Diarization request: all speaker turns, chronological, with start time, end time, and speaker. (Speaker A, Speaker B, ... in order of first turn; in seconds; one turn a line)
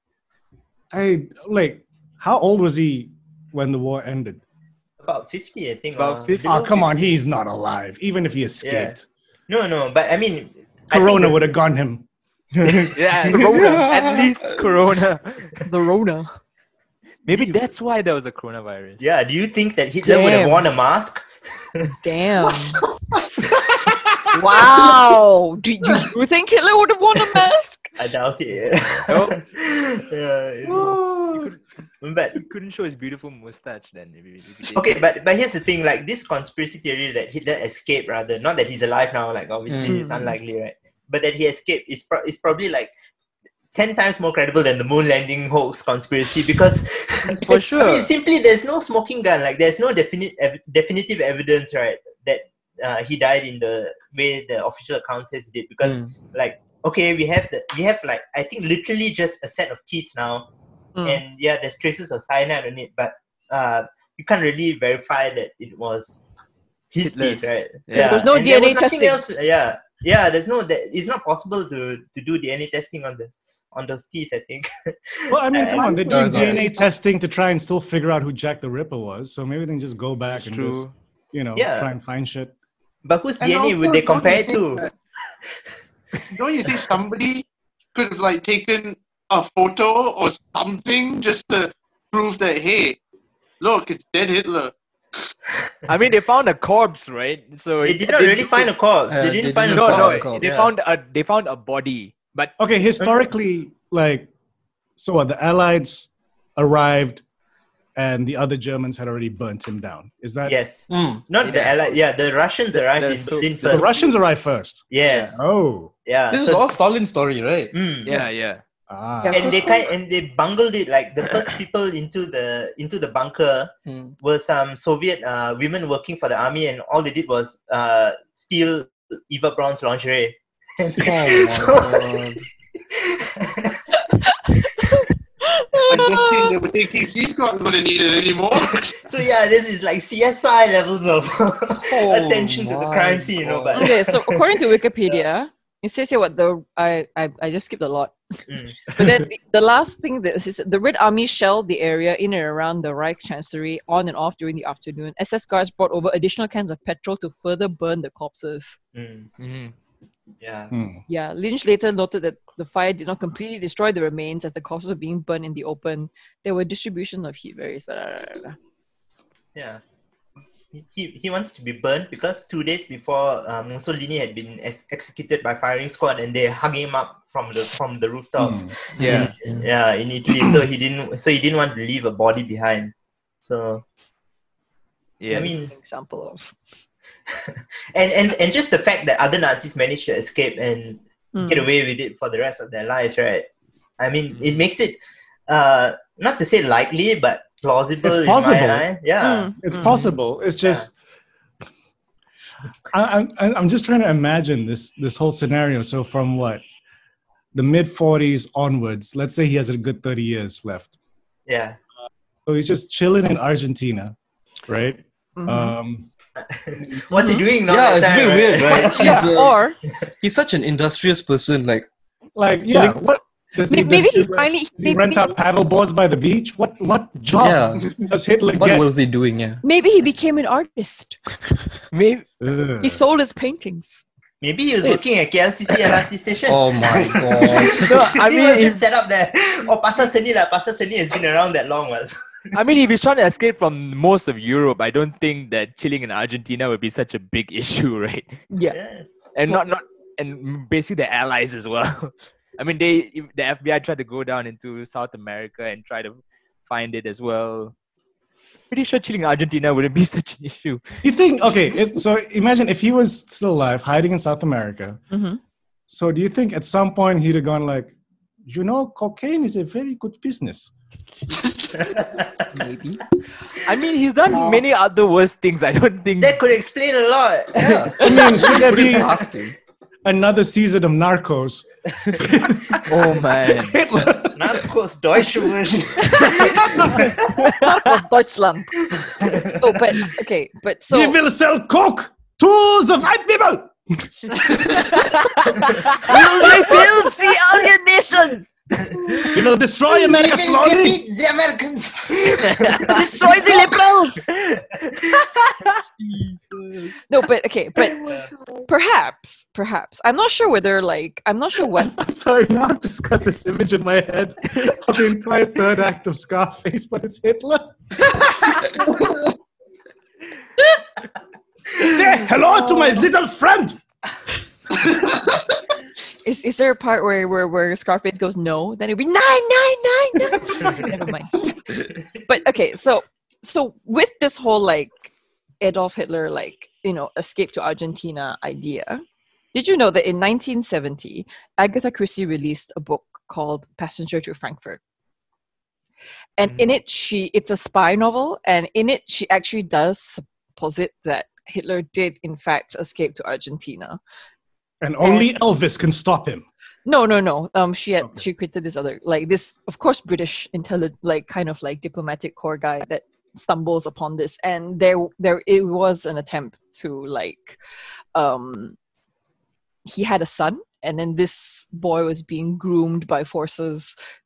Speaker A: 0.9-4.4
Speaker B: 5.0-7.1
Speaker C: 6.0-6.8
Speaker A: 6.5-9.0
Speaker B: 8.6-8.9
Speaker B: 9.5-11.4
Speaker A: 10.9-12.1
Speaker C: 12.9-15.6
Speaker D: 13.3-14.3
Speaker E: 15.6-16.3
Speaker C: 17.2-19.0
Speaker B: 19.0-21.9
Speaker E: 20.0-20.7
Speaker E: 22.0-22.8
Speaker E: 24.3-27.9
Speaker B: 28.0-31.0
Speaker C: 29.1-29.4
Speaker A: 30.6-31.5
Speaker B: 32.0-32.4
Speaker C: 32.3-35.0
Speaker B: 34.7-42.9
Speaker D: 39.7-40.0
Speaker E: 39.9-40.2
Speaker B: 43.7-60.5
Speaker C: 47.4-48.1
Speaker D: 55.8-56.1
Speaker B: 61.0-66.2
Speaker B: 66.9-76.6
Speaker C: 67.0-68.3
Speaker E: 67.9-69.2
Speaker A: 75.3-82.5
Speaker E: 75.8-76.8
Speaker D: 76.0-76.7
Speaker C: 80.3-80.9
Speaker B: 81.5-81.9
Speaker B: 83.0-84.8
Speaker F: 83.4-84.9
Speaker F: 86.3-93.0
Speaker F: 93.6-95.3
Speaker C: 95.9-98.7
Speaker B: 97.8-100.7
Speaker D: 99.1-100.5
Speaker C: 99.7-102.5
Speaker A: 102.6-104.3
Speaker A: 105.0-107.2
Speaker A: 108.0-110.5
Speaker B: 110.4-114.1
Speaker D: 110.9-111.2
Speaker C: 111.4-111.8
Speaker C: 112.7-114.0
Speaker A: 113.6-114.8
Speaker B: 114.9-115.4
Speaker C: 115.0-115.4
Speaker A: 115.3-115.9
Speaker B: 116.0-116.7
Speaker D: 116.3-117.7
Speaker B: 117.7-118.2
Speaker C: 118.0-118.6
Speaker A: 118.9-119.6
Speaker E: 119.2-119.7
Speaker B: 119.3-132.3
Speaker D: 123.8-124.1
Speaker D: 131.0-132.4
Speaker B: 132.9-133.8
Speaker E: 134.8-136.6
Speaker F: 135.9-138.9
Speaker B: 139.0-144.5
Speaker D: 141.9-143.9
Speaker E: 143.7-148.1
Speaker B: 148.5-148.8
Speaker E: 148.8-158.8
Speaker B: 158.9-159.3
Speaker C: 159.4-159.7
Speaker B: 160.4-160.7
Speaker A: 160.7-161.0
Speaker E: 161.1-168.6
Speaker B: 169.5-169.8
Speaker B: 170.7-183.8
Speaker A: 178.4-178.7
Speaker C: 179.0-179.3
Speaker D: 179.0-179.6
Speaker C: 185.2-185.6
Speaker B: 185.3-185.7
Speaker E: 185.7-186.6
Speaker B: 187.3-193.5
Speaker E: 191.3-191.7
Speaker B: 194.0-199.6
Speaker C: 194.3-194.6
Speaker A: 198.0-198.9
Speaker E: 199.2-199.9
Speaker A: 199.6-200.9
Speaker C: 199.8-200.1
Speaker A: 202.9-206.6
Speaker A: 207.5-210.9
Speaker B: 211.5-211.8
Speaker A: 212.4-214.1
Speaker A: 214.7-216.1
Speaker E: 215.3-215.7
Speaker B: 216.4-219.3
Speaker E: 217.1-217.4
Speaker D: 217.7-219.6
Speaker E: 218.7-219.8
Speaker D: 220.2-221.9
Speaker A: 222.3-228.9
Speaker E: 223.7-225.4
Speaker D: 227.4-227.9
Speaker D: 228.6-229.6
Speaker E: 229.6-231.2
Speaker C: 231.9-232.2
Speaker A: 232.4-233.0
Speaker E: 232.8-234.0
Speaker B: 234.4-242.5
Speaker D: 236.4-237.9
Speaker C: 237.7-238.8
Speaker C: 242.5-248.3
Speaker E: 248.5-248.8
Speaker B: 248.7-249.1
Speaker C: 249.3-257.7
Speaker C: 258.7-261.0
Speaker A: 261.0-265.0
Speaker E: 265.1-265.4
Speaker A: 265.9-267.9
Speaker A: 268.4-270.7
Speaker F: 271.3-271.7
Speaker B: 271.9-272.3
Speaker E: 272.5-273.0
Speaker C: 273.6-276.4
Speaker F: 274.3-274.6
Speaker B: 276.2-279.1
Speaker D: 277.7-279.6
Speaker A: 278.0-279.1
Speaker A: 280.0-284.6
Speaker C: 282.9-283.8
Speaker B: 284.3-287.1
Speaker E: 286.0-286.5
Speaker A: 286.4-287.0
Speaker E: 287.5-288.8
Speaker B: 288.9-289.5
Speaker E: 289.5-291.1
Speaker A: 290.9-294.4
Speaker C: 294.9-298.2
Speaker E: 296.1-298.4
Speaker A: 299.2-301.0
Speaker B: 300.0-303.7
Speaker C: 302.6-304.6
Speaker E: 302.9-304.2
Speaker C: 305.5-306.5
Speaker E: 307.1-308.1
Speaker B: 308.0-308.3
Speaker E: 308.6-311.9
Speaker A: 311.7-318.5
Speaker A: 321.8-323.8
Speaker F: 324.8-325.4
Speaker E: 326.2-331.5
Speaker E: 332.2-339.0
Speaker E: 339.5-344.8
Speaker E: 346.4-354.0
Speaker A: 354.8-356.4
Speaker E: 355.0-355.3
Speaker E: 356.9-367.6
Speaker E: 368.1-368.8
Speaker E: 369.9-373.9